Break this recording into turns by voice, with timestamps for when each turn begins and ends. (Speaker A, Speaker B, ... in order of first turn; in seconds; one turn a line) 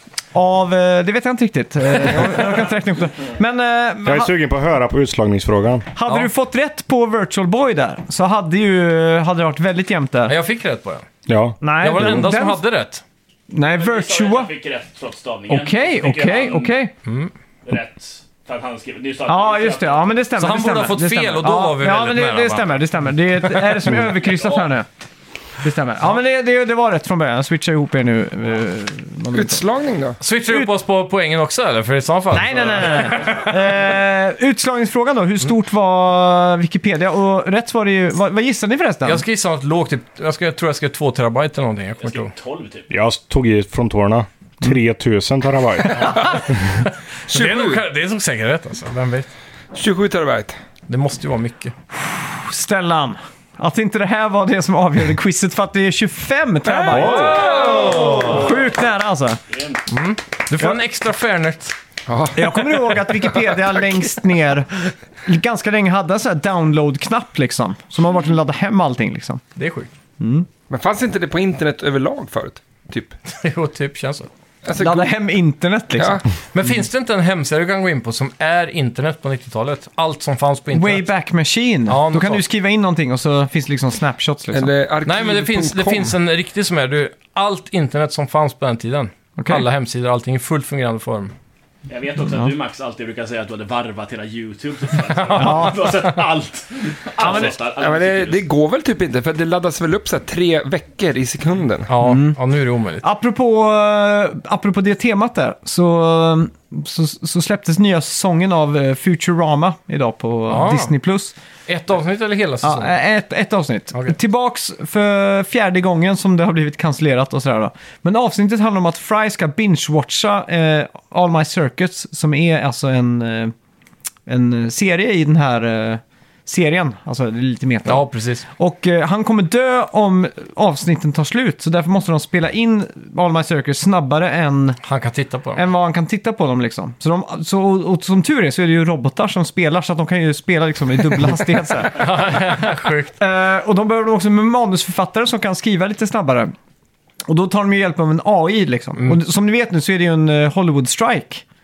Speaker A: 0.3-4.3
Speaker B: 2.1-2.6
Speaker C: 4.0-5.9
Speaker A: 5.9-10.3
Speaker B: 10.3-11.1
Speaker C: 11.3-12.2
Speaker A: 11.6-12.6
Speaker B: 11.8-13.0
Speaker A: 13.5-14.5
Speaker D: 13.7-16.8
Speaker A: 15.5-16.9
Speaker B: 17.1-17.3
Speaker D: 17.6-20.2
Speaker A: 19.2-24.9
Speaker B: 20.4-22.8
Speaker B: 23.5-23.9
Speaker D: 24.1-24.7
Speaker A: 25.6-29.6
Speaker E: 29.3-30.2
Speaker B: 30.2-33.4
Speaker A: 32.3-39.2
Speaker D: 32.6-33.4
Speaker B: 39.0-42.3
Speaker D: 42.0-42.9
Speaker C: 42.9-46.2
Speaker E: 45.8-46.5
Speaker B: 46.8-49.3
Speaker E: 47.3-47.8
Speaker E: 49.7-50.6
Speaker B: 50.9-51.7
Speaker A: 52.3-59.4
Speaker E: 56.6-58.4
Speaker B: 56.9-58.5
Speaker C: 56.9-57.3
Speaker D: 57.7-58.5
Speaker D: 59.5-59.8
Speaker B: 59.9-61.8
Speaker E: 62.1-63.2
Speaker A: 62.3-64.7
Speaker A: 65.2-69.4
Speaker B: 69.5-69.9
Speaker A: 70.2-70.5
Speaker E: 70.7-73.2
Speaker B: 73.3-74.3
Speaker E: 74.6-75.2
Speaker A: 74.8-76.2
Speaker E: 76.0-76.2
Speaker B: 76.5-81.1
Speaker A: 80.7-84.7
Speaker B: 81.9-82.4
Speaker E: 84.5-86.1
Speaker B: 85.0-91.3
Speaker A: 89.4-89.6
Speaker D: 91.9-98.4
Speaker B: 95.1-96.2
Speaker A: 95.3-95.9
Speaker A: 97.2-97.5
Speaker E: 97.2-101.9
Speaker B: 101.9-103.0
Speaker A: 102.0-102.4
Speaker A: 103.0-111.3
Speaker B: 110.5-110.9
Speaker B: 111.7-113.0
Speaker A: 112.6-123.5
Speaker A: 124.3-134.8
Speaker B: 127.8-128.4
Speaker B: 134.8-135.6
Speaker A: 135.5-142.3
Speaker B: 141.8-143.1
Speaker A: 143.2-146.5
Speaker A: 147.3-151.4